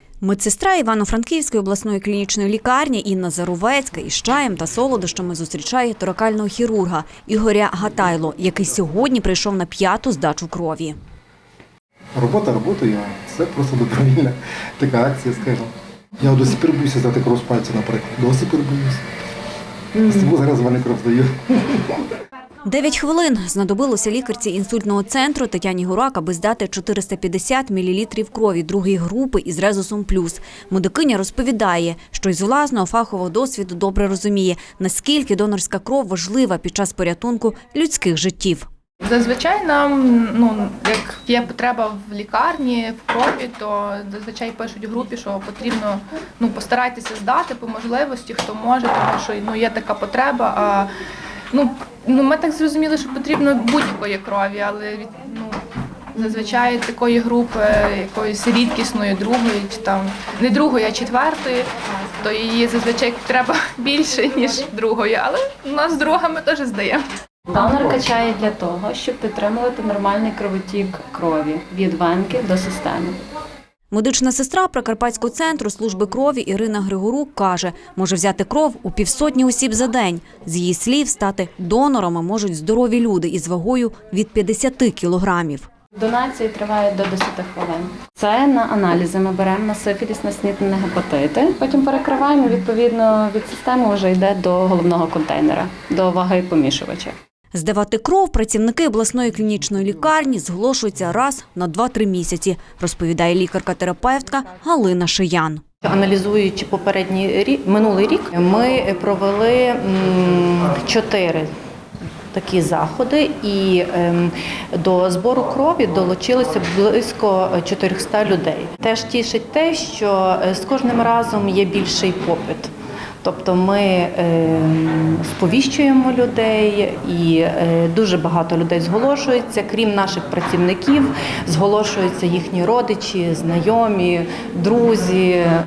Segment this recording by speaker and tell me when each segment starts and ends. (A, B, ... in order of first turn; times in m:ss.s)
0:00.2-0:10.9 A
0:12.2-0:19.0 B
0:20.0-0:21.9 B
0:22.6-0:38.6 A
0:39.0-0:50.9 C
0:51.5-0:55.6 C
0:56.1-1:01.7 C
1:02.2-1:07.0 C
1:07.5-1:13.2 D
1:13.9-1:25.7 A
1:26.0-1:37.2 D
1:37.5-1:45.6 A
1:45.8-1:51.5 E
1:52.3-2:02.7 E
2:03.2-2:15.6 E